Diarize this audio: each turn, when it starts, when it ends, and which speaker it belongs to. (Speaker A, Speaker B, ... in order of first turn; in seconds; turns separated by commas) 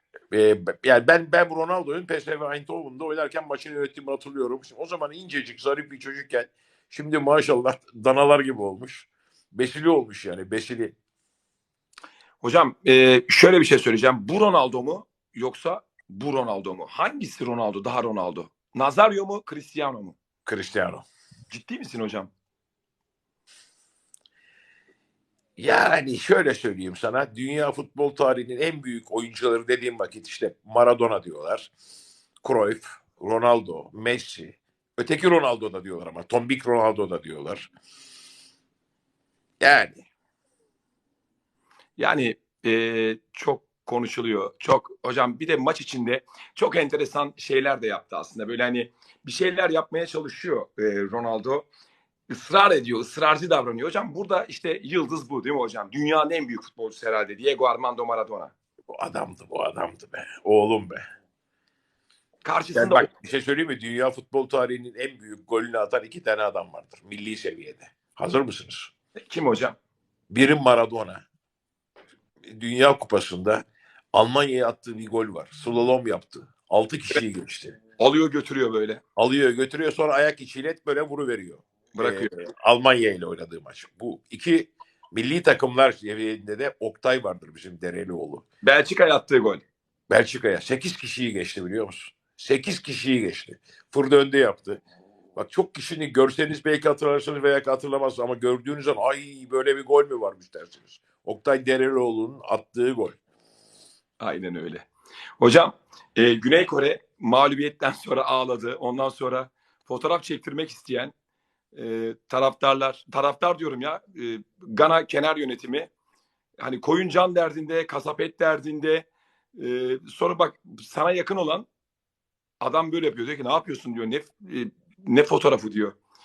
Speaker A: 0.3-10.9, Speaker B: 12.4-20.1, Speaker A: 20.4-21.1, Speaker B: 21.5-22.3, Speaker A: 25.6-31.7, Speaker A: 32.4-37.7, Speaker A: 39.6-40.0, Speaker B: 42.0-51.7, Speaker B: 52.3-58.5, Speaker A: 58.9-61.0, Speaker B: 62.4-63.1, Speaker A: 62.7-68.9, Speaker B: 69.3-69.8, Speaker A: 70.3-71.2, Speaker A: 72.5-77.8, Speaker B: 78.0-79.0, Speaker A: 79.2-88.4, Speaker B: 82.0-82.3, Speaker B: 88.6-89.6, Speaker A: 90.1-94.8, Speaker A: 95.3-103.2, Speaker B: 104.2-104.9, Speaker B: 105.4-111.1, Speaker B: 111.7-115.9, Speaker B: 116.6-121.7, Speaker B: 122.6-126.0